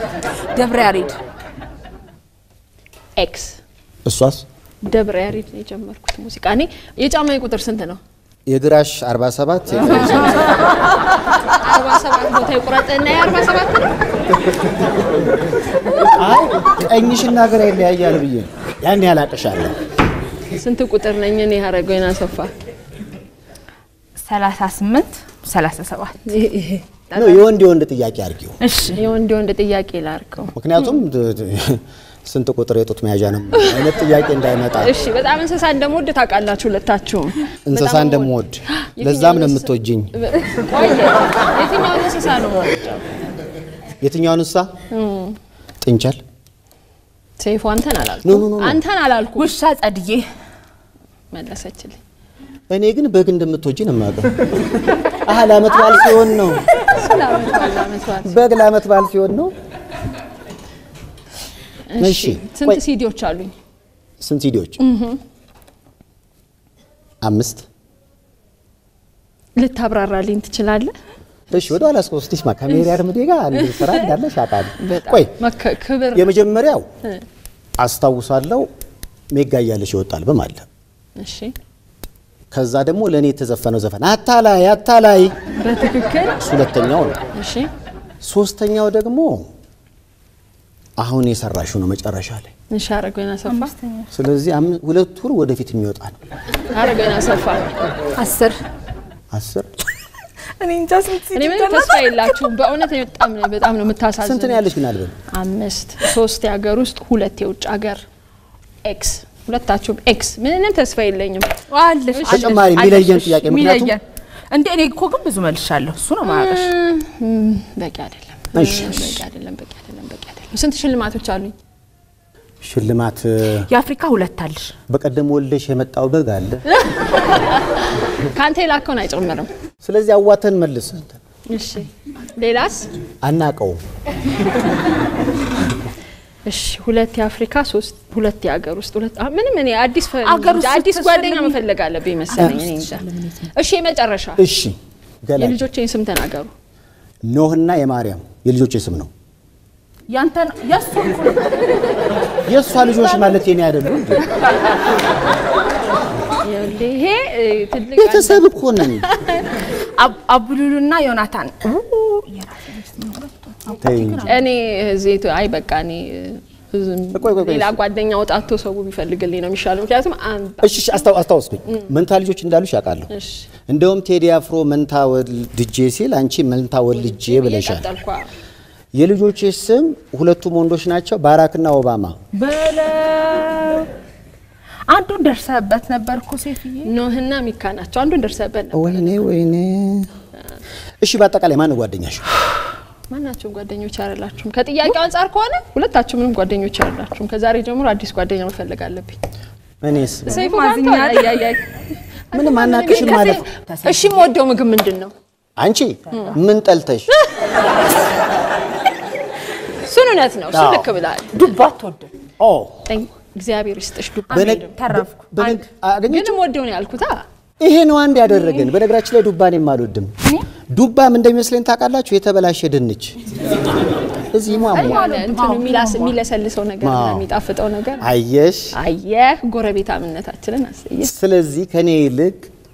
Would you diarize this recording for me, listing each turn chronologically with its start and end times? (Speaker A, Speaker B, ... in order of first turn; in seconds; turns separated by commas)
Speaker A: 0.5-1.1, Speaker B: 3.1-3.6, Speaker C: 4.0-4.4, Speaker B: 4.8-8.0, Speaker C: 8.5-10.6, Speaker B: 11.5-14.0, Speaker C: 15.8-19.7, Speaker B: 20.5-22.5, Speaker A: 24.2-26.4, Speaker B: 26.3-26.9, Speaker C: 27.1-28.6, Speaker A: 28.6-29.0, Speaker B: 28.9-30.6, Speaker C: 30.6-35.0, Speaker B: 33.6-33.9, Speaker B: 34.8-43.0, Speaker C: 37.6-40.1, Speaker C: 44.0-44.7, Speaker B: 44.9-45.4, Speaker C: 45.8-46.2, Speaker B: 47.4-49.5, Speaker C: 48.2-48.8, Speaker A: 49.4-50.3, Speaker B: 51.3-52.0, Speaker C: 52.7-56.7, Speaker B: 55.8-58.5, Speaker C: 58.2-59.5, Speaker B: 61.9-63.5, Speaker C: 62.0-62.8, Speaker C: 64.2-64.8, Speaker B: 64.8-65.2, Speaker C: 67.2-67.7, Speaker B: 69.5-70.9, Speaker C: 71.5-75.3, Speaker B: 74.8-76.3, Speaker C: 76.1-76.9, Speaker C: 77.8-78.7, Speaker C: 79.3-80.7, Speaker B: 81.2-81.5, Speaker C: 82.5-85.4, Speaker B: 85.5-86.4, Speaker C: 86.4-87.2, Speaker B: 87.3-87.7, Speaker C: 88.2-89.5, Speaker C: 91.0-92.5, Speaker B: 92.7-93.7, Speaker A: 93.5-94.1, Speaker C: 94.1-96.2, Speaker B: 96.7-97.6, Speaker A: 98.2-98.6, Speaker C: 99.3-99.7, Speaker A: 100.6-102.5, Speaker B: 101.3-104.7, Speaker C: 104.2-105.2, Speaker B: 105.3-108.0, Speaker B: 108.8-111.6, Speaker A: 111.7-116.7, Speaker B: 112.1-112.7, Speaker C: 112.3-113.9, Speaker B: 116.2-121.5, Speaker C: 118.5-119.2, Speaker C: 122.6-123.7, Speaker A: 123.7-124.7, Speaker C: 124.9-126.6, Speaker B: 126.7-129.5, Speaker C: 129.8-131.2, Speaker B: 131.5-132.9, Speaker C: 133.2-133.8, Speaker B: 136.4-144.4, Speaker A: 140.2-141.6, Speaker A: 142.3-143.5, Speaker C: 144.4-145.7, Speaker B: 145.4-146.5, Speaker C: 147.2-149.1, Speaker A: 150.1-151.7, Speaker C: 152.4-154.3, Speaker B: 156.4-159.4, Speaker C: 157.9-159.1, Speaker A: 159.9-164.4, Speaker C: 163.8-164.3, Speaker B: 164.3-171.1, Speaker C: 167.1-167.8, Speaker C: 170.6-173.1, Speaker B: 173.1-173.4, Speaker C: 173.7-177.9, Speaker B: 177.0-178.3, Speaker C: 178.9-182.2, Speaker A: 182.3-183.9, Speaker A: 184.9-186.9, Speaker B: 186.8-189.2, Speaker C: 188.7-190.1, Speaker C: 191.0-192.2, Speaker B: 193.1-199.2, Speaker C: 199.8-200.4, Speaker B: 200.2-205.1, Speaker A: 200.3-201.4, Speaker C: 202.3-203.4, Speaker A: 202.9-204.3, Speaker C: 205.6-207.1, Speaker B: 209.9-211.5, Speaker C: 210.5-210.9, Speaker A: 211.3-212.1, Speaker C: 212.4-212.9, Speaker B: 212.9-214.7, Speaker A: 214.3-215.6, Speaker C: 214.3-216.4, Speaker B: 216.1-217.2, Speaker C: 217.6-220.1, Speaker C: 220.7-223.2, Speaker C: 224.2-225.0, Speaker A: 224.6-226.2, Speaker B: 224.6-228.1, Speaker C: 226.8-227.2, Speaker C: 228.0-228.8, Speaker B: 228.7-231.1, Speaker C: 231.0-232.5